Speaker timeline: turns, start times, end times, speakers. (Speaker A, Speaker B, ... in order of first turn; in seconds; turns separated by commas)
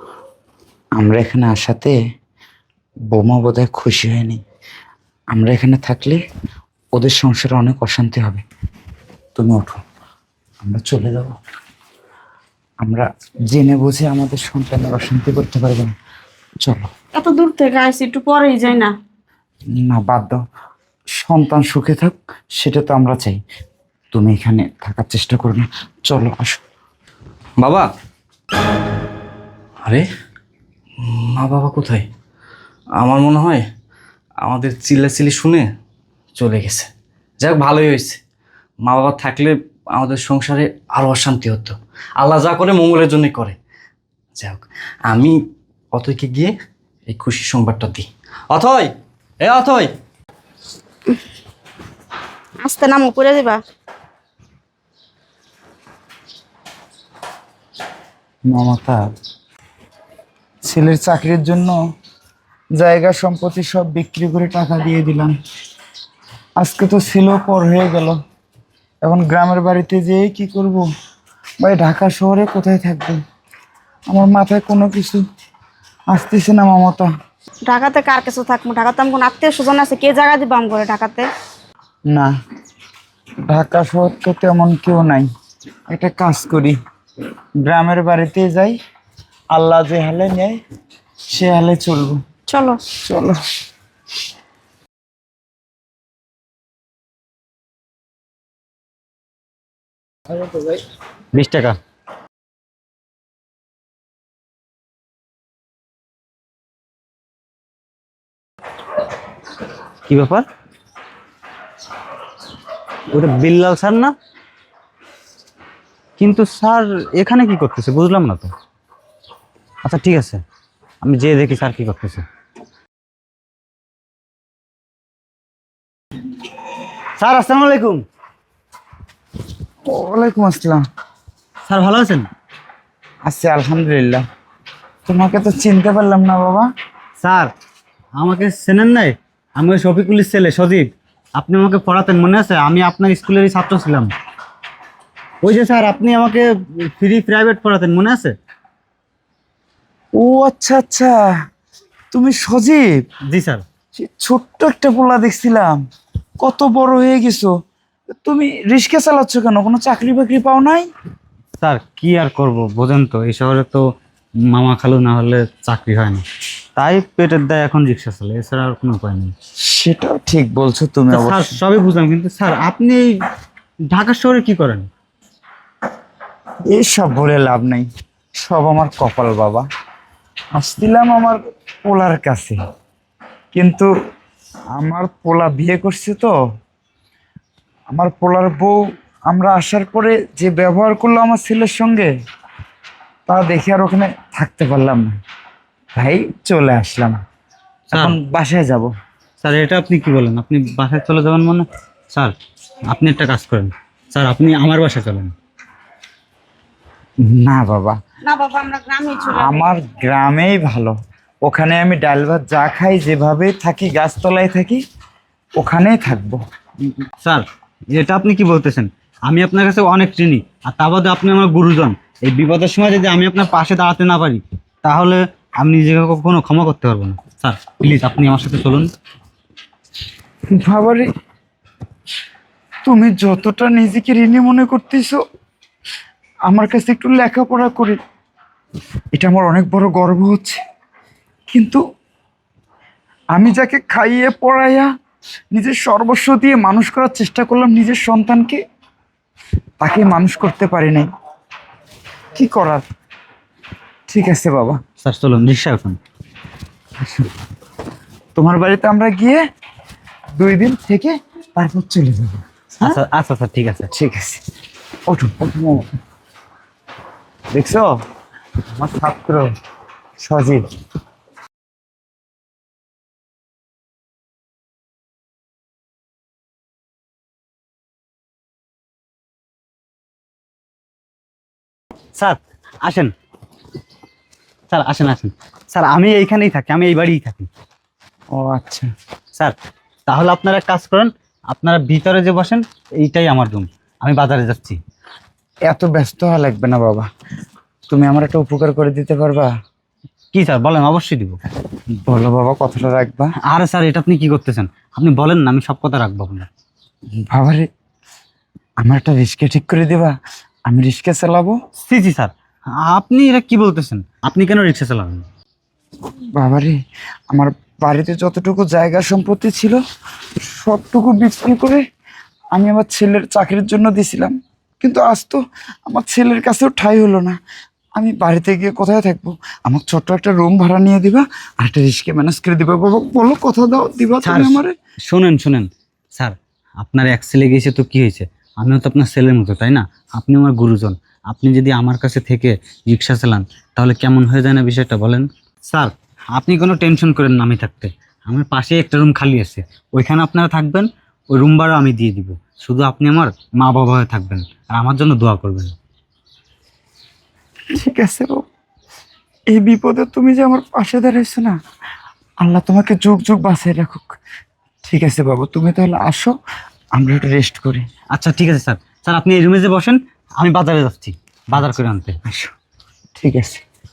Speaker A: 1.0-1.9, Speaker A: 3.1-4.4, Speaker A: 5.3-6.2, Speaker A: 7.0-8.4, Speaker A: 9.3-9.8, Speaker A: 10.6-11.3, Speaker A: 12.8-15.9, Speaker B: 17.1-18.9, Speaker A: 19.8-20.4, Speaker A: 21.2-23.4, Speaker A: 24.1-26.6, Speaker C: 27.6-27.9, Speaker C: 31.0-32.0, Speaker C: 33.0-33.6, Speaker C: 34.4-35.6, Speaker C: 36.4-36.9, Speaker C: 37.4-38.2, Speaker C: 38.8-43.6, Speaker C: 44.4-45.3, Speaker C: 45.9-46.5, Speaker C: 47.1-48.9, Speaker C: 49.4-49.9, Speaker B: 52.6-53.6, Speaker A: 58.5-59.0, Speaker A: 60.6-61.7, Speaker A: 62.8-65.3, Speaker A: 66.6-68.2, Speaker A: 69.0-70.8, Speaker A: 71.6-73.2, Speaker A: 74.1-75.2, Speaker A: 76.1-77.1, Speaker B: 77.6-81.3, Speaker A: 83.5-85.3, Speaker A: 85.9-86.8, Speaker A: 87.6-88.8, Speaker A: 89.5-90.6, Speaker A: 91.3-92.2, Speaker B: 92.5-92.8, Speaker A: 93.0-93.4, Speaker D: 101.3-101.8, Speaker D: 110.1-110.4, Speaker D: 113.1-114.1, Speaker D: 116.2-118.5, Speaker D: 119.8-120.4, Speaker D: 121.0-122.2, Speaker D: 127.2-128.0, Speaker A: 129.9-130.8, Speaker D: 131.7-132.3, Speaker A: 133.2-134.2, Speaker A: 135.1-136.7, Speaker D: 137.2-137.5, Speaker D: 138.2-144.1, Speaker D: 145.4-148.3, Speaker A: 150.2-151.1, Speaker A: 152.1-152.9, Speaker D: 153.3-153.6, Speaker A: 153.9-155.8, Speaker A: 156.4-157.5, Speaker A: 158.2-160.9, Speaker D: 161.6-163.8, Speaker D: 164.5-166.2, Speaker D: 166.8-169.3, Speaker A: 169.7-171.6, Speaker D: 171.1-173.0, Speaker D: 173.9-174.9, Speaker A: 176.7-177.9, Speaker A: 178.4-179.6, Speaker A: 180.6-182.6, Speaker A: 183.5-183.9, Speaker A: 184.8-186.3, Speaker A: 187.9-188.8, Speaker A: 189.3-192.1, Speaker A: 193.3-195.1, Speaker A: 195.9-197.2, Speaker A: 197.9-198.9, Speaker D: 199.4-202.3, Speaker D: 202.9-205.3, Speaker A: 207.2-208.0, Speaker B: 208.2-209.6, Speaker A: 209.3-214.8, Speaker A: 215.6-216.4, Speaker D: 217.2-228.9, Speaker A: 230.6-231.1, Speaker A: 232.8-235.2, Speaker A: 236.5-238.0, Speaker A: 239.2-240.6, Speaker A: 241.5-241.8, Speaker A: 243.3-244.9, Speaker A: 245.5-248.6, Speaker A: 249.8-251.1, Speaker A: 252.3-252.8, Speaker A: 254.1-254.8, Speaker D: 255.0-256.0, Speaker A: 257.0-257.3, Speaker A: 258.4-259.4, Speaker A: 260.4-263.0, Speaker D: 262.8-263.9, Speaker A: 263.9-264.4, Speaker A: 265.1-265.8, Speaker A: 267.5-267.9, Speaker A: 268.8-269.5, Speaker A: 270.2-270.6, Speaker D: 282.1-283.1, Speaker D: 284.7-287.5, Speaker A: 288.3-288.9, Speaker D: 290.1-294.8, Speaker A: 295.7-297.1, Speaker A: 297.9-299.5, Speaker D: 300.3-301.4, Speaker A: 302.1-303.3, Speaker D: 303.4-306.5, Speaker A: 307.3-307.7, Speaker A: 308.8-310.1, Speaker A: 310.7-311.6, Speaker D: 311.9-312.3, Speaker D: 312.8-315.2, Speaker A: 316.4-316.8, Speaker A: 317.3-319.8, Speaker A: 320.5-321.8, Speaker A: 322.5-327.4, Speaker A: 328.0-334.7, Speaker D: 334.2-355.7, Speaker A: 357.8-358.4, Speaker A: 359.5-361.6, Speaker A: 362.4-364.1, Speaker A: 364.8-366.3, Speaker A: 366.9-367.8, Speaker D: 368.1-372.2, Speaker A: 372.2-372.5, Speaker A: 373.1-373.6